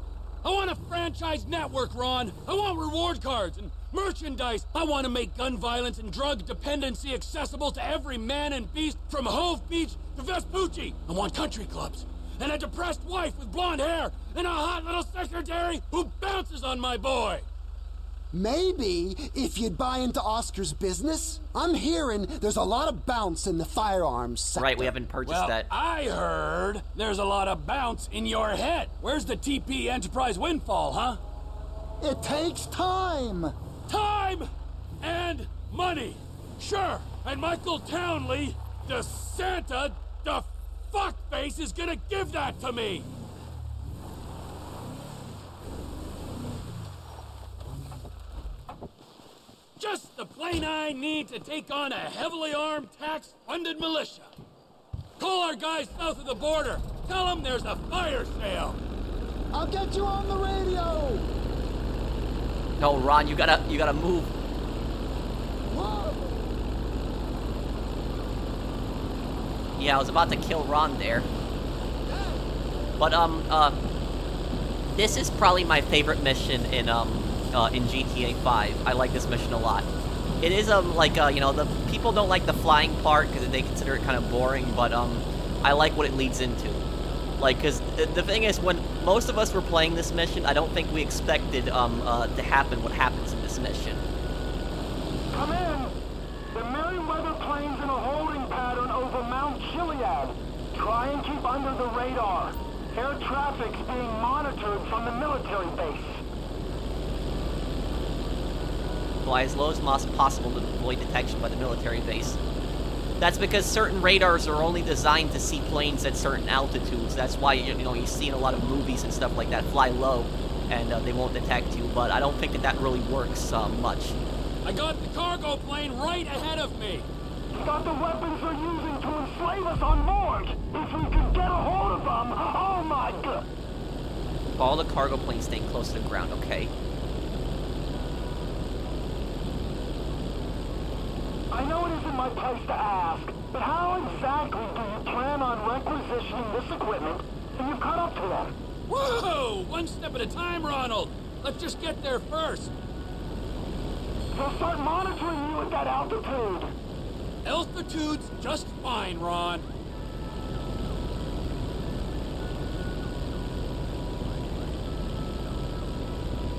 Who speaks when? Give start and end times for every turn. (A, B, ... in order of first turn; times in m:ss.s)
0:00.4-0:17.5 A
0:18.3-0:25.0 B
0:24.6-0:25.7 C
0:25.3-0:31.2 A
0:32.0-0:33.5 B
0:33.9-0:34.5 A
0:35.0-0:43.1 A
0:49.8-0:54.3 A
0:55.2-0:58.8 A
0:59.5-1:01.3 B
1:02.8-1:04.3 C
1:05.7-1:06.5 B
1:09.8-1:11.3 C
1:12.1-1:12.4 B
1:13.0-1:13.8 C
1:14.9-1:19.9 C
1:20.4-1:26.8 C
1:27.4-1:34.0 C
1:35.3-1:36.0 D
1:36.5-1:46.2 D
1:49.2-1:52.4 C
1:53.2-2:04.2 C
2:04.6-2:07.1 A
2:07.5-2:13.5 D
2:14.5-2:16.7 C
2:21.5-2:28.6 D
2:28.9-2:32.7 A
2:34.3-2:36.7 D
2:37.4-2:39.6 A